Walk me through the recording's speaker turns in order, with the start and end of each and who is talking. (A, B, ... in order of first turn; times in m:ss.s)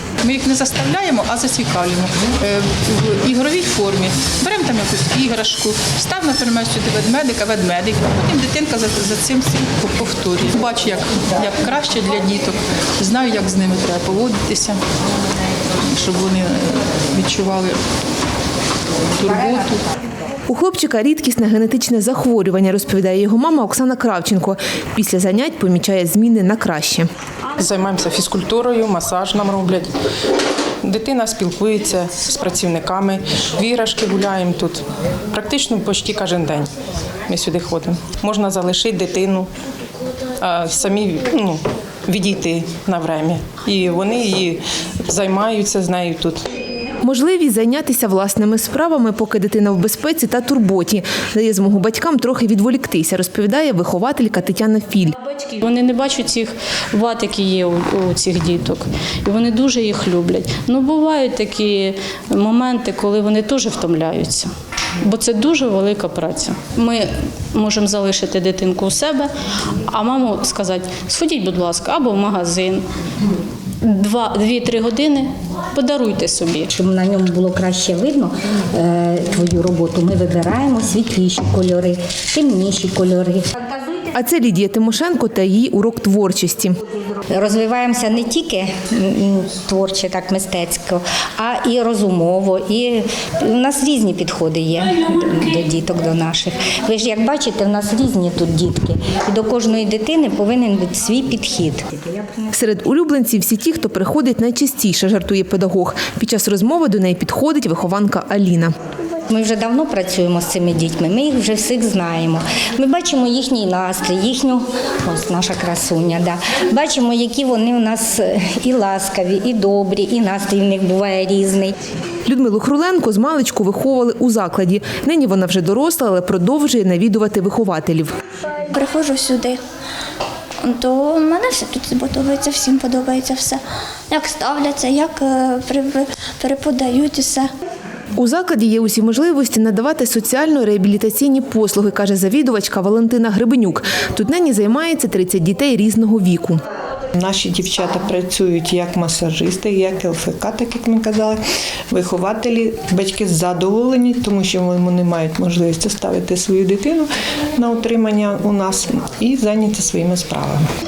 0:00.2-0:14.8 A
0:15.8-0:17.8 A
0:19.1-0:19.8 A
0:20.5-0:27.1 B
0:27.6-0:29.9 C
0:30.8-0:36.7 C
0:37.3-0:39.5 C
0:40.4-0:46.4 C
0:47.0-0:55.1 B
0:55.3-1:04.5 D
1:05.0-1:09.3 D
1:09.9-1:12.8 D
1:13.8-1:16.7 D
1:16.7-1:24.1 E
1:24.1-1:26.8 B
1:27.3-1:42.5 E
1:42.5-1:48.7 B
1:49.3-2:01.7 E
2:02.2-2:08.1 B
2:08.5-2:09.6 F
2:10.6-2:17.5 F
2:18.2-2:26.6 B
2:27.2-2:31.4 G
2:31.9-2:40.6 G